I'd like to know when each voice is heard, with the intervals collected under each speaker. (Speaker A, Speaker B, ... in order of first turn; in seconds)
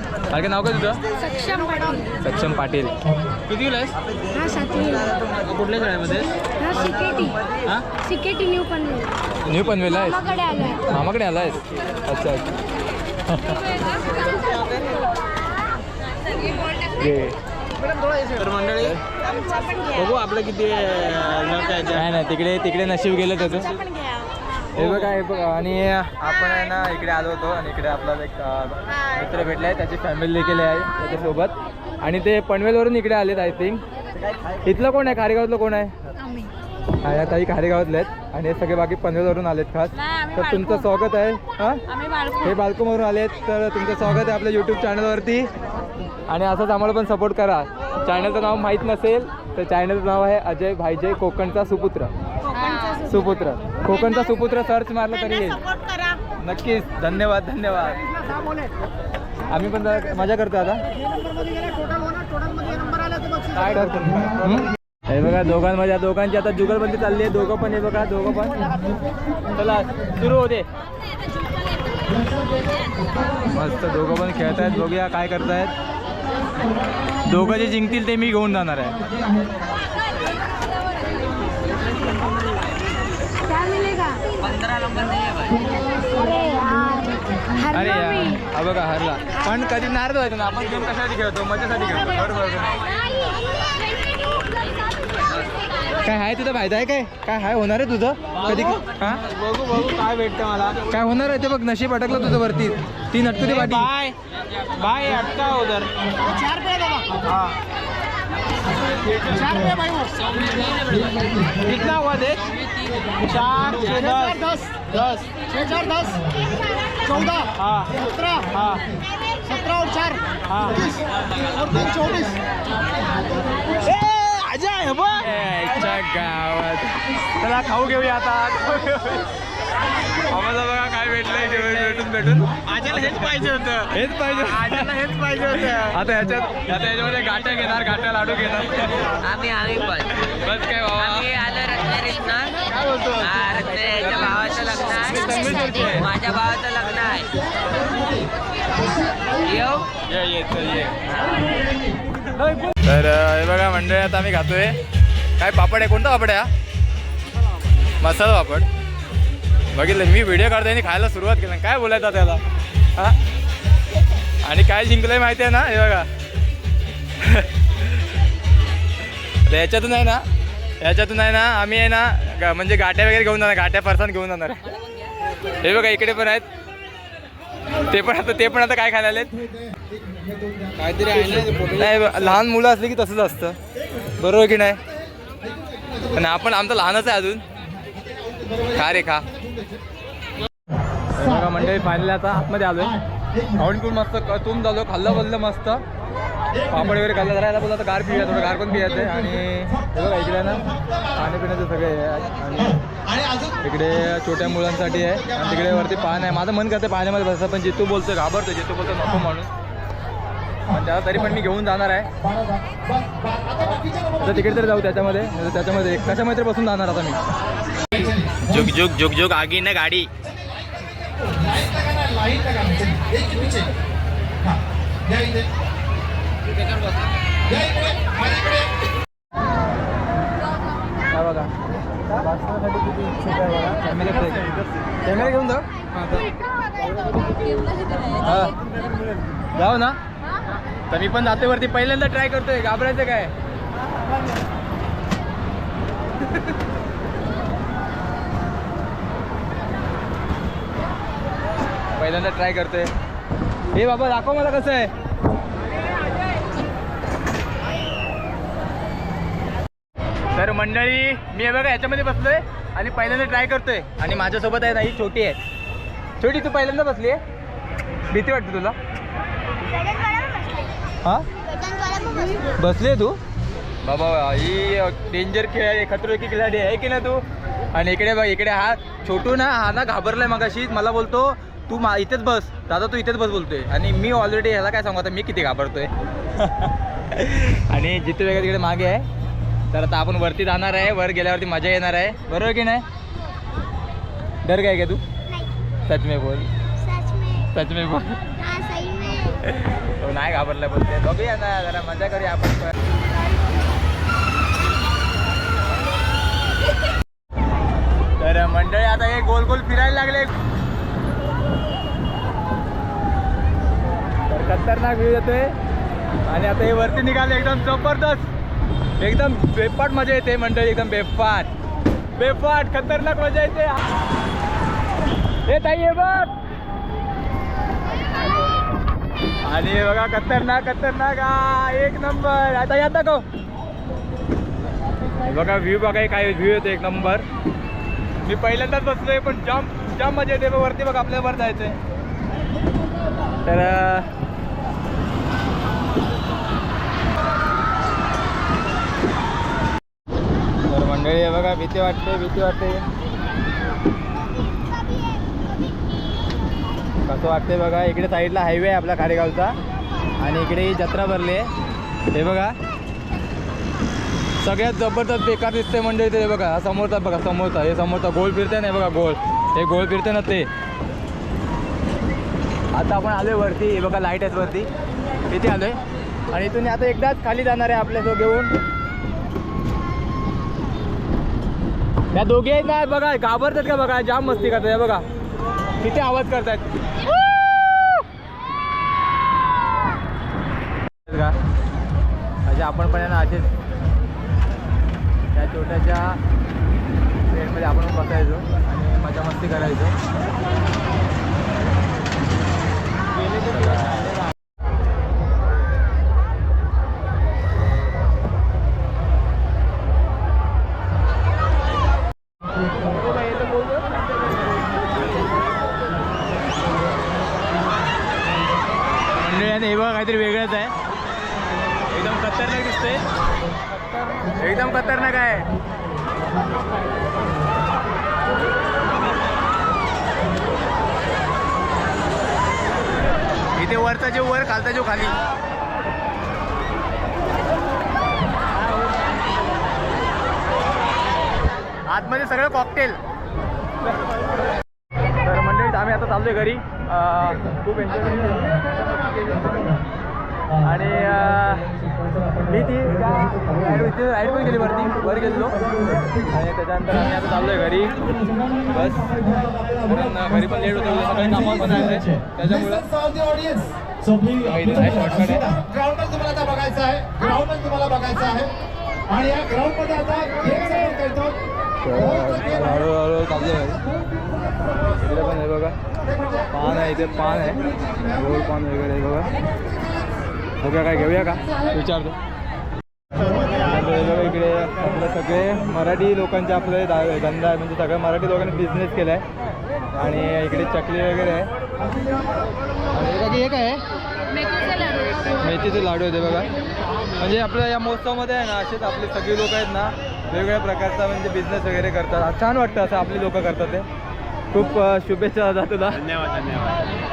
Speaker A: 0.2-1.0, 2.2-3.0, 3.5-3.9, 9.4-12.5, 13.3-13.6, 16.9-17.4, 21.9-23.8, 24.8-33.8, 34.6-35.9, 37.0-45.5, 46.3-52.1, 52.9-55.7, 56.4-58.1, 59.5-60.8, 63.5-68.9, 69.5-70.7, 73.4-75.7, 77.2-79.0, 87.6-93.0, 96.0-99.2, 100.8-103.9, 125.2-129.3, 129.9-133.1, 133.9-139.1, 140.0-141.6, 142.7-146.1, 150.1-151.4, 152.4-154.8, 155.4-156.5, 158.0-158.7, 159.7-162.4, 164.4-166.1, 167.2-168.0, 169.5-170.2, 170.8-174.6, 175.5-176.5, 177.9-179.5, 181.7-183.6, 184.2-184.8, 186.1-187.4, 188.7-189.3, 191.2-193.0, 193.6-195.8, 196.7-202.8, 203.6-209.5, 210.7-212.1, 214.2-217.2, 218.0-220.1, 231.1-231.5, 232.1-234.5, 235.0-236.2, 238.2-238.6, 239.6-240.0, 240.9-243.3, 252.0-252.9, 253.7-254.9, 260.3-265.4, 266.2-267.2, 268.1-268.8, 272.6-273.2, 273.8-277.2, 277.7-289.1, 289.7-292.9, 294.4-295.0, 295.9-296.5, 297.3-298.6, 299.2-302.8, 308.2-310.3, 314.3-315.6, 316.3-318.3, 319.0-321.5, 322.1-323.8, 325.5-326.3, 329.4-333.2, 335.2-337.2, 338.2-341.8, 343.4-344.1, 350.7-352.9, 357.1-359.6, 360.2-361.5, 362.1-362.6, 364.4-370.5, 372.7-374.7, 375.3-375.8, 376.3-378.5, 382.1-385.1, 385.8-386.7, 391.1-391.4, 392.5-393.5, 395.3-396.2, 397.3-399.9, 403.4-404.1, 419.1-420.7, 421.9-423.0, 424.4-425.5, 433.6-435.2, 441.9-443.0, 445.2-449.7, 450.6-451.7, 452.4-455.6, 456.2-458.0, 458.6-459.3, 459.8-462.9, 464.4-465.6, 471.8-473.8, 475.0-475.8, 476.5-479.3, 480.6-482.1, 483.6-489.2, 489.9-491.5, 492.9-493.8, 495.4-496.5, 497.2-503.9, 504.5-506.1
Speaker B: 1.2-2.1, 4.3-5.1, 6.6-7.4, 7.9-9.2, 10.3-10.8, 83.4-84.3, 86.2-87.6, 271.6-272.3, 296.9-297.4, 298.5-299.2
Speaker C: 3.5-3.9, 5.3-6.3, 14.3-15.0, 17.9-19.0, 19.6-22.0, 62.7-63.1, 98.4-100.8, 103.4-104.2, 104.7-107.5, 109.1-110.9, 111.5-116.2, 117.0-122.4, 123.8-125.3, 132.7-135.9, 180.8-182.2, 413.4-413.8, 506.2-506.7
Speaker D: 72.2-72.5, 85.7-86.2, 111.0-111.5, 114.2-114.7, 120.8-121.0, 121.8-122.2, 122.7-123.8, 147.5-149.6, 151.4-152.0, 179.7-180.9, 185.4-186.1, 187.9-189.8, 202.9-203.6, 212.2-214.5, 217.9-218.6, 220.2-223.7, 224.4-225.5, 227.5-228.8, 459.2-459.9, 460.7-463.9, 464.6-468.5, 469.1-471.4
Speaker E: 84.4-85.6, 139.2-140.0, 141.2-142.6, 143.2-145.0, 145.9-147.3, 149.5-149.9